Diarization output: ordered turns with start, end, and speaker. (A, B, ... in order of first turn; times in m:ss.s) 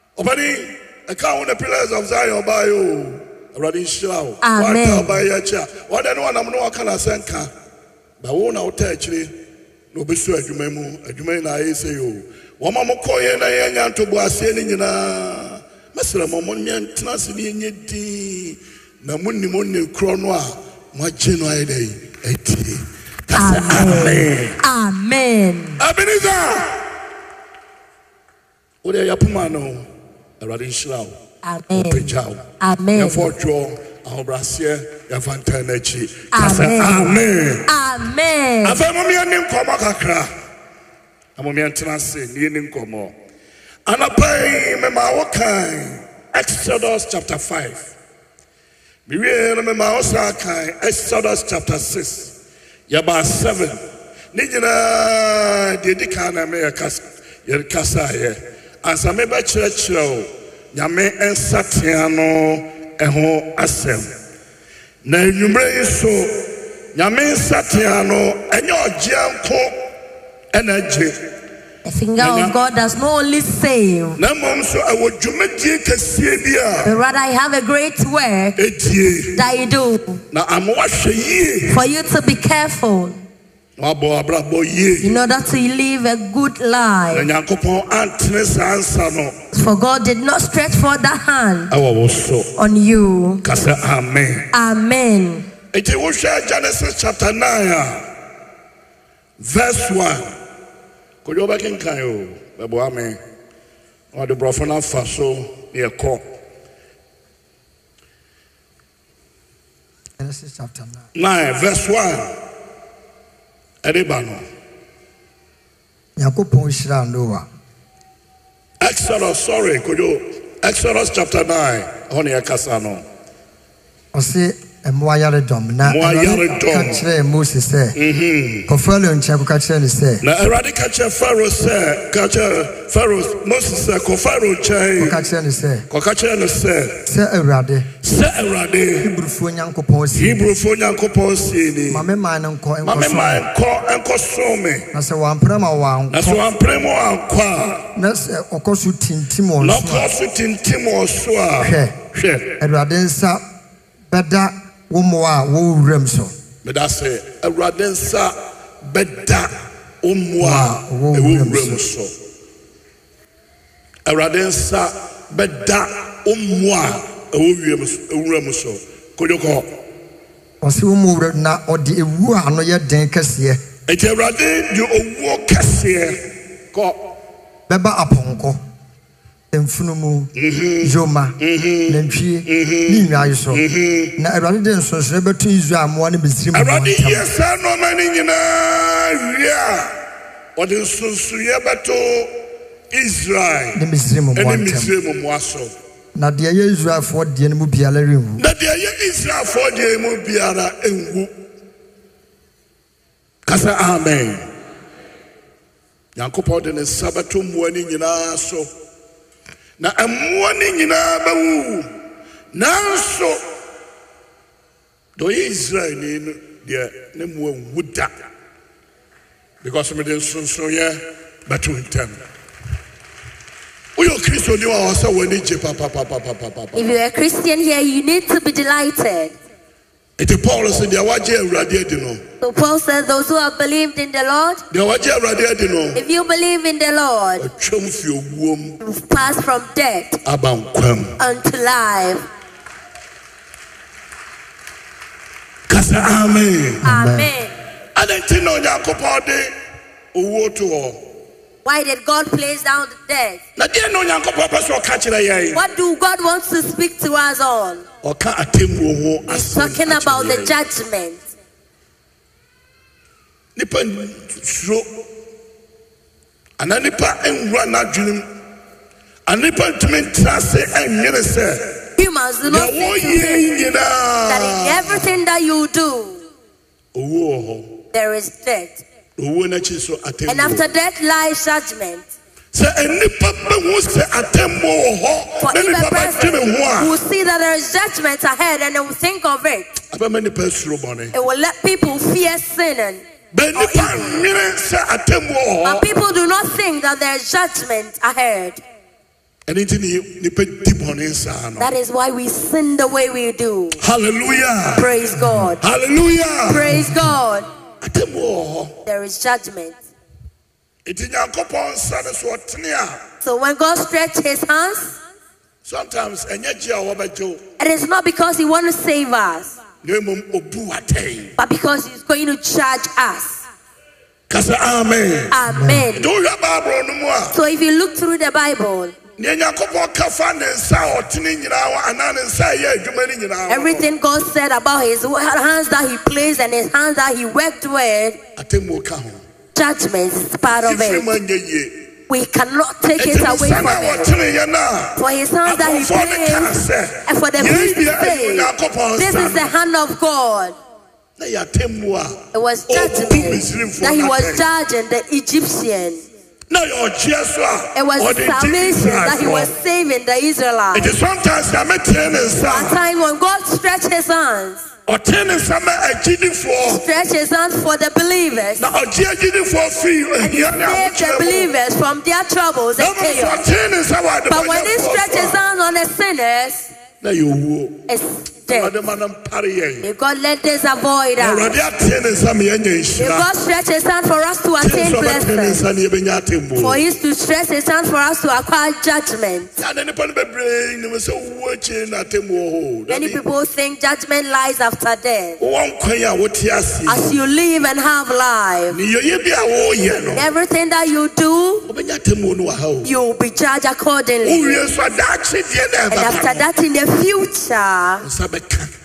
0:00.2-0:07.5 A
0:04.4-0:05.1 B
0:08.2-0:09.3 A
0:09.9-0:24.6 A
0:23.3-0:25.8 B
0:25.8-0:26.9 A
0:28.8-0:29.8 A
0:30.4-0:31.2 A
0:31.4-0:33.3 B
0:31.7-0:37.7 A
0:36.3-0:38.8 B
0:38.6-0:40.3 A
0:41.4-0:43.1 A
0:43.8-0:47.9 A
0:49.0-0:52.3 A
0:52.9-0:53.8 A
0:54.3-1:04.2 A
1:05.0-1:09.9 A
1:10.5-1:11.2 A
1:11.8-1:14.2 B
1:12.2-1:12.5 A
1:14.2-1:16.9 A
1:16.8-1:18.6 B
1:18.6-1:19.4 A
1:19.3-1:20.2 B
1:20.3-1:21.8 A
1:21.7-1:23.2 B
1:23.8-1:25.2 A
1:25.0-1:27.3 B
1:27.1-1:29.4 A
1:29.5-1:31.7 B
1:31.7-1:32.5 A
1:32.6-1:33.4 B
1:33.4-1:34.5 A
1:34.5-1:35.5 B
1:35.7-1:38.1 A
1:39.4-1:40.3 A
1:41.2-1:43.2 A
1:44.1-1:46.2 A
1:50.2-1:51.0 C
1:51.1-1:52.4 A
1:53.8-1:54.4 A
1:56.2-1:57.4 C
1:58.8-2:03.0 A
2:04.1-2:08.0 C
2:05.8-2:07.0 A
2:08.0-2:08.7 A
2:08.7-2:10.2 C
2:10.2-2:15.2 A
2:15.0-2:15.8 C
2:15.9-2:17.1 A
2:17.0-2:17.9 C
2:18.0-2:19.1 A
2:19.0-2:20.5 C
2:20.1-2:22.1 A
2:21.9-2:23.4 C
2:22.8-2:24.9 A
2:24.9-2:26.4 C
2:26.1-2:27.9 A
2:28.0-2:30.1 C
2:29.6-2:32.6 A
2:31.6-2:32.0 C
2:32.6-2:33.4 C
2:34.1-2:36.3 C
2:36.6-2:42.1 A
2:40.4-2:41.8 C
2:44.0-2:49.7 A
2:50.6-2:53.6 C
2:53.9-2:57.0 A
2:57.7-2:58.6 C
2:59.5-3:01.4 C
3:00.3-3:04.2 A
3:01.9-3:03.6 C
3:04.2-3:07.3 C
3:06.5-3:10.0 A
3:10.6-3:13.8 A
3:13.7-3:14.9 C
3:14.3-3:15.7 A
3:16.1-3:18.4 C
3:18.4-3:21.4 A
3:23.4-3:24.5 A
3:26.2-3:28.7 A
3:29.8-3:31.9 A
3:32.5-3:33.4 A
3:35.2-3:38.1 A
3:39.6-3:42.2 A
3:44.0-3:46.8 A
3:46.7-3:49.3 B
3:50.2-3:52.2 A
3:52.4-3:54.6 B
3:54.7-3:56.0 A
3:55.9-3:57.4 B
3:57.4-3:58.8 A
3:58.8-4:00.2 B
4:00.2-4:01.2 A
4:01.2-4:02.2 B
4:05.7-4:06.9 A
4:06.8-4:07.5 B
4:06.8-4:07.3 C
4:07.9-4:09.5 A
4:10.1-4:11.0 A
4:11.6-4:13.4 B
4:13.6-4:15.6 A
4:15.5-4:17.8 B
4:18.0-4:20.6 A
4:19.3-4:21.2 B
4:23.6-4:25.0 A
4:26.6-4:28.3 A
4:29.3-4:31.9 A
4:32.0-4:33.5 B
4:32.5-4:35.1 A
4:34.3-4:36.2 B
4:36.9-4:37.8 A
4:37.9-4:38.8 B
4:39.2-4:40.7 A
4:40.3-4:42.0 B
4:42.5-4:46.9 A
4:45.4-4:49.8 B
4:49.9-4:51.1 A
4:51.1-4:53.0 B
4:53.3-4:55.8 A
4:53.5-4:54.2 B
4:55.6-4:58.6 B
4:59.5-5:01.7 A
5:01.6-5:03.8 B
5:03.8-5:04.9 A
5:04.8-5:05.6 B
5:05.6-5:06.8 A
5:06.5-5:07.5 B
5:07.8-5:08.8 A
5:08.8-5:09.8 B
5:10.8-5:13.0 A
5:13.2-5:15.0 B
5:15.6-5:17.4 A
5:17.6-5:19.6 B
5:19.8-5:21.4 A
5:21.4-5:23.4 B
5:24.3-5:25.3 A
5:25.3-5:26.1 B
5:25.5-5:25.9 C
5:25.9-5:27.4 A
5:27.3-5:29.0 B
5:29.2-5:33.8 A
5:33.5-5:38.2 B
5:38.4-5:39.2 A
5:39.5-5:41.1 B
5:40.6-5:41.9 A
5:42.1-5:44.1 B
5:43.0-5:49.5 A
5:45.0-5:50.6 B
5:51.2-5:54.4 A
5:52.3-5:56.0 B
5:56.5-5:59.5 A
5:57.7-6:00.9 B
6:00.7-6:02.8 A
6:02.4-6:04.6 B
6:04.9-6:06.8 A
6:06.7-6:08.7 B
6:08.6-6:11.5 A
6:10.2-6:13.5 B
6:12.8-6:15.4 A
6:14.3-6:16.7 B
6:17.0-6:17.9 A
6:17.9-6:18.7 B
6:18.5-6:19.8 A
6:19.8-6:21.5 B
6:21.2-6:23.3 A
6:23.0-6:25.7 B
6:24.6-6:26.8 A
6:26.6-6:29.5 B
6:29.6-6:33.2 A
6:32.9-6:35.4 B
6:35.4-6:37.2 A
6:36.9-6:38.8 B
6:38.7-6:40.3 A
6:40.1-6:41.6 B
6:41.6-6:42.9 A
6:42.8-6:44.6 B
6:44.2-6:46.4 A
6:45.9-6:48.0 B
6:48.0-6:48.7 A